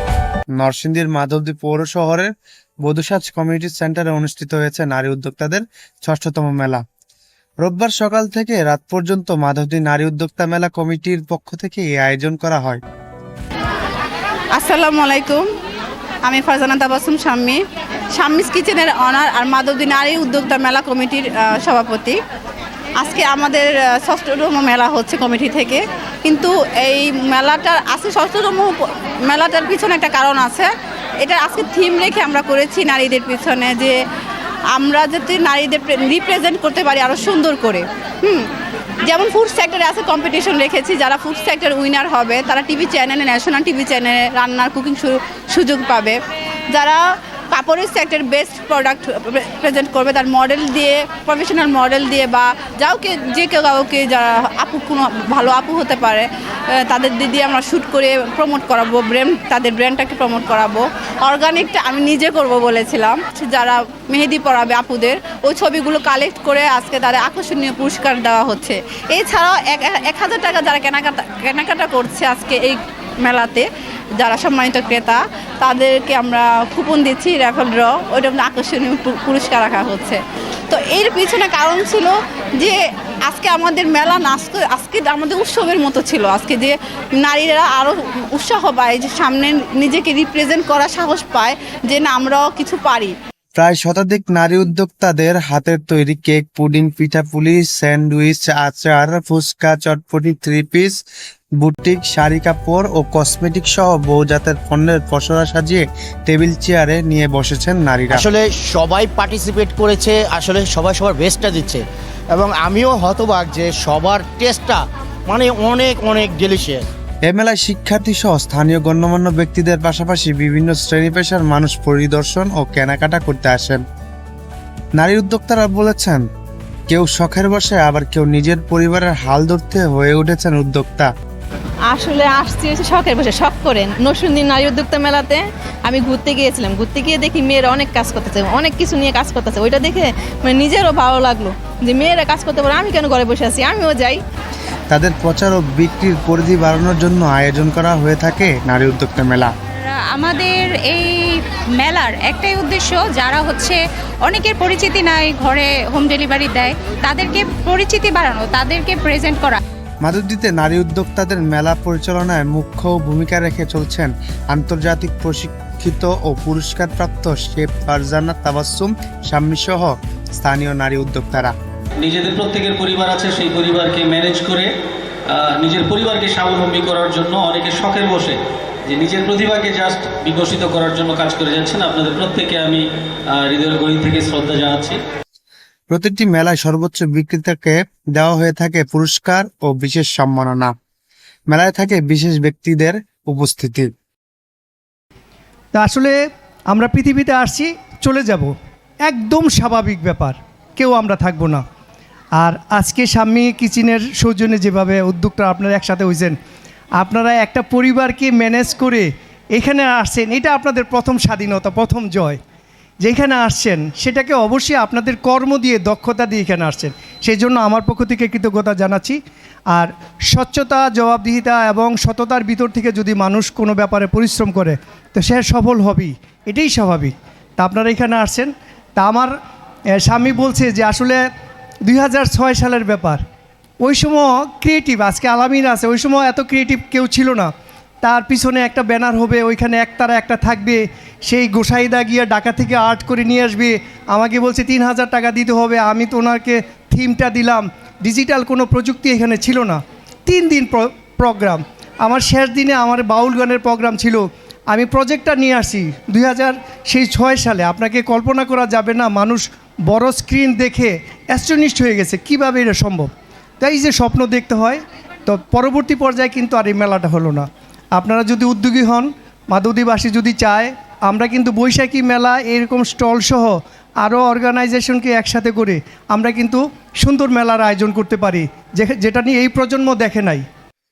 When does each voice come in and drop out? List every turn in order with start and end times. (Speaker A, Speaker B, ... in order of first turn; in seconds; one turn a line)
Speaker A: 0.6-2.3
Speaker A: 2.8-6.8
Speaker A: 7.6-12.8
Speaker B: 14.6-15.4
Speaker B: 16.2-17.6
Speaker B: 18.2-22.1
Speaker B: 23.0-28.7
Speaker B: 29.3-30.7
Speaker B: 31.2-34.0
Speaker B: 34.7-38.5
Speaker B: 39.1-46.1
Speaker B: 46.7-47.0
Speaker B: 47.5-73.6
Speaker B: 74.2-80.2
Speaker B: 80.7-93.1
Speaker A: 93.6-101.0
Speaker A: 101.6-108.3
Speaker C: 108.2-111.8
Speaker C: 112.3-116.8
Speaker A: 117.3-123.8
Speaker A: 125.0-126.2
Speaker A: 126.9-131.1
Speaker D: 131.9-144.2
Speaker A: 144.9-149.5
Speaker E: 149.8-159.6
Speaker A: 160.0-171.5
Speaker F: 172.0-174.7
Speaker F: 175.3-185.0
Speaker A: 185.9-190.7
Speaker A: 191.5-193.9
Speaker G: 195.7-196.2
Speaker G: 196.7-198.5
Speaker G: 199.0-201.6
Speaker G: 202.4-206.3
Speaker G: 207.0-212.4
Speaker G: 213.0-219.2
Speaker G: 219.7-229.3
Speaker G: 230.0-231.2
Speaker G: 231.8-233.2
Speaker G: 233.8-237.5
Speaker G: 238.0-263.1
Speaker G: 263.6-280.4